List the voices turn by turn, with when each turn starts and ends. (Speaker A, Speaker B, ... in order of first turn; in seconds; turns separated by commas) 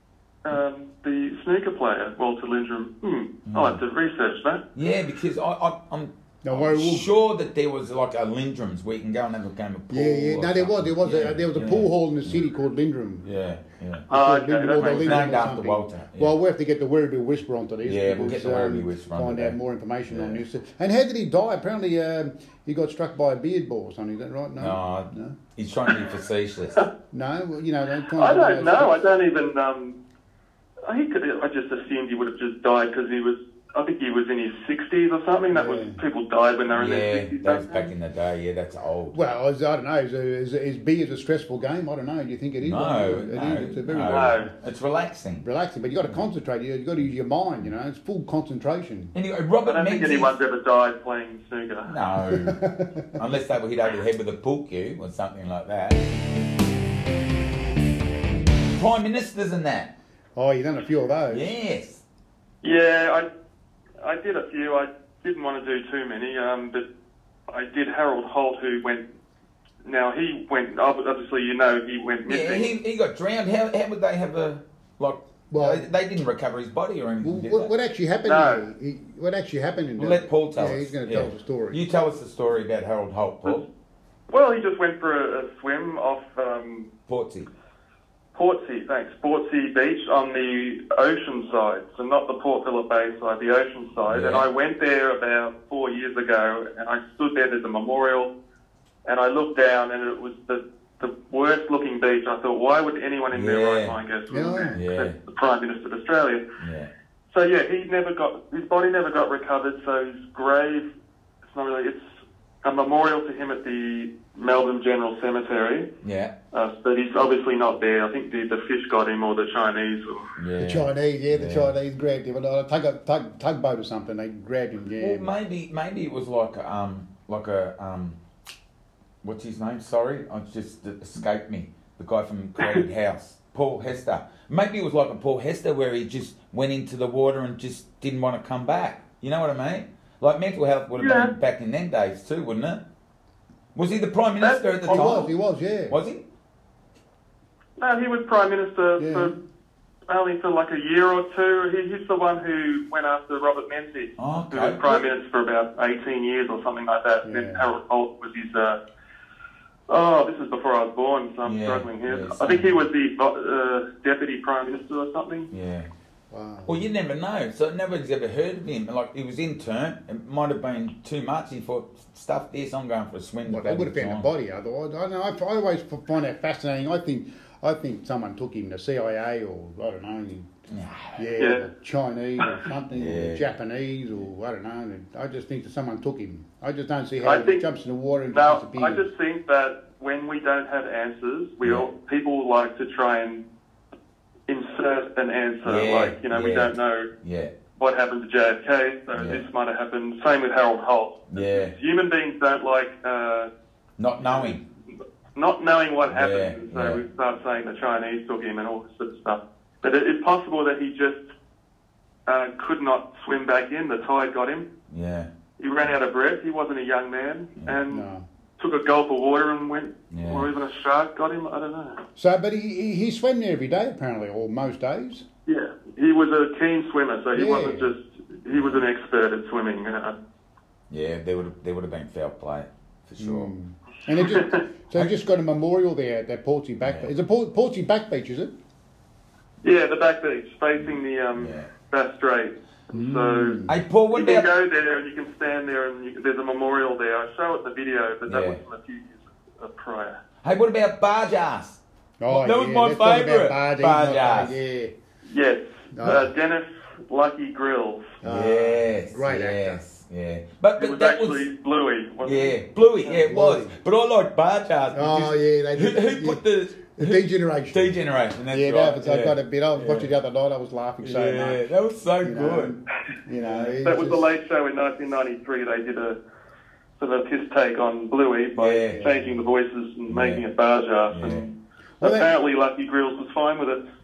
Speaker A: 0.4-4.6, Speaker B: 3.5-3.8, Speaker B: 4.7-12.4, Speaker C: 6.4-7.1, Speaker C: 9.9-13.3, Speaker B: 13.2-14.1, Speaker A: 14.1-15.4, Speaker C: 14.1-25.4, Speaker B: 14.7-16.3, Speaker B: 17.8-19.6, Speaker B: 20.1-20.4, Speaker B: 24.6-26.8, Speaker C: 27.1-28.9, Speaker A: 28.1-30.0, Speaker A: 30.8-37.9, Speaker C: 35.5-36.0, Speaker B: 36.7-39.3, Speaker C: 39.1-44.5, Speaker B: 42.6-45.5, Speaker A: 44.0-44.5, Speaker C: 45.4-49.1, Speaker B: 49.1-50.3, Speaker A: 49.6-51.9, Speaker B: 51.9-56.0, Speaker C: 52.3-53.2, Speaker B: 58.8-59.9, Speaker C: 60.4-61.5, Speaker B: 61.3-62.0, Speaker A: 62.6-63.3, Speaker A: 64.0-66.9, Speaker A: 67.5-69.0, Speaker A: 69.8-72.7, Speaker B: 72.3-77.7, Speaker C: 75.5-75.9, Speaker C: 77.2-81.8, Speaker A: 78.2-78.7, Speaker B: 80.0-83.6, Speaker A: 84.3-86.9, Speaker B: 87.1-87.5, Speaker A: 88.3-98.3, Speaker B: 94.1-94.4, Speaker A: 99.0-106.4, Speaker B: 103.3-104.0, Speaker C: 104.3-104.8, Speaker B: 104.7-105.2, Speaker B: 106.6-106.9, Speaker A: 107.3-110.9, Speaker A: 111.5-112.0, Speaker A: 112.6-115.9, Speaker B: 116.0-116.3, Speaker A: 116.5-120.3, Speaker B: 120.4-121.7, Speaker C: 120.6-125.3, Speaker B: 125.0-128.2, Speaker B: 129.2-142.8, Speaker A: 141.0-141.3, Speaker B: 143.7-145.3, Speaker A: 144.4-145.2, Speaker C: 144.9-146.0, Speaker B: 145.9-146.2, Speaker A: 147.8-149.3, Speaker C: 149.0-149.3, Speaker A: 150.1-158.8, Speaker B: 154.2-155.0, Speaker C: 157.2-157.7, Speaker A: 159.9-165.5, Speaker B: 161.4-162.8, Speaker B: 165.5-165.9, Speaker C: 166.3-166.8, Speaker B: 166.7-174.3, Speaker C: 173.4-180.5, Speaker B: 180.7-181.3, Speaker C: 181.2-189.0, Speaker A: 181.4-181.7, Speaker B: 182.9-183.5, Speaker A: 187.2-187.6, Speaker A: 188.3-193.4, Speaker A: 194.5-197.1, Speaker B: 195.6-197.5, Speaker A: 197.8-203.5, Speaker B: 199.2-199.4, Speaker B: 201.3-201.7, Speaker B: 204.0-204.6, Speaker A: 204.2-204.5, Speaker A: 205.3-211.2, Speaker B: 206.1-207.0, Speaker A: 212.3-214.7, Speaker B: 214.9-215.3, Speaker A: 215.6-218.1, Speaker C: 217.9-218.2, Speaker A: 218.6-222.0, Speaker B: 220.1-220.5, Speaker C: 222.2-225.2, Speaker A: 225.5-230.2, Speaker C: 227.3-227.9, Speaker B: 228.5-228.8, Speaker B: 230.9-233.5, Speaker C: 233.2-238.5, Speaker A: 234.2-234.6, Speaker B: 236.8-237.1, Speaker A: 239.6-250.2, Speaker B: 240.8-241.7, Speaker C: 242.9-243.8, Speaker B: 243.7-244.5, Speaker B: 248.3-248.6, Speaker B: 250.4-254.6, Speaker C: 252.2-254.9, Speaker A: 255.2-258.1, Speaker C: 255.9-256.3, Speaker C: 258.2-259.8, Speaker B: 258.2-261.4, Speaker A: 260.8-263.1, Speaker B: 262.2-270.1, Speaker C: 263.1-263.7, Speaker C: 264.9-266.4, Speaker C: 266.9-268.0, Speaker C: 268.5-271.7, Speaker B: 271.0-272.7, Speaker C: 272.2-274.2, Speaker A: 273.8-276.2, Speaker A: 277.0-281.4, Speaker B: 278.6-279.1, Speaker C: 278.9-279.3, Speaker B: 280.1-280.4, Speaker B: 281.1-281.5, Speaker C: 282.0-282.3, Speaker A: 282.0-283.8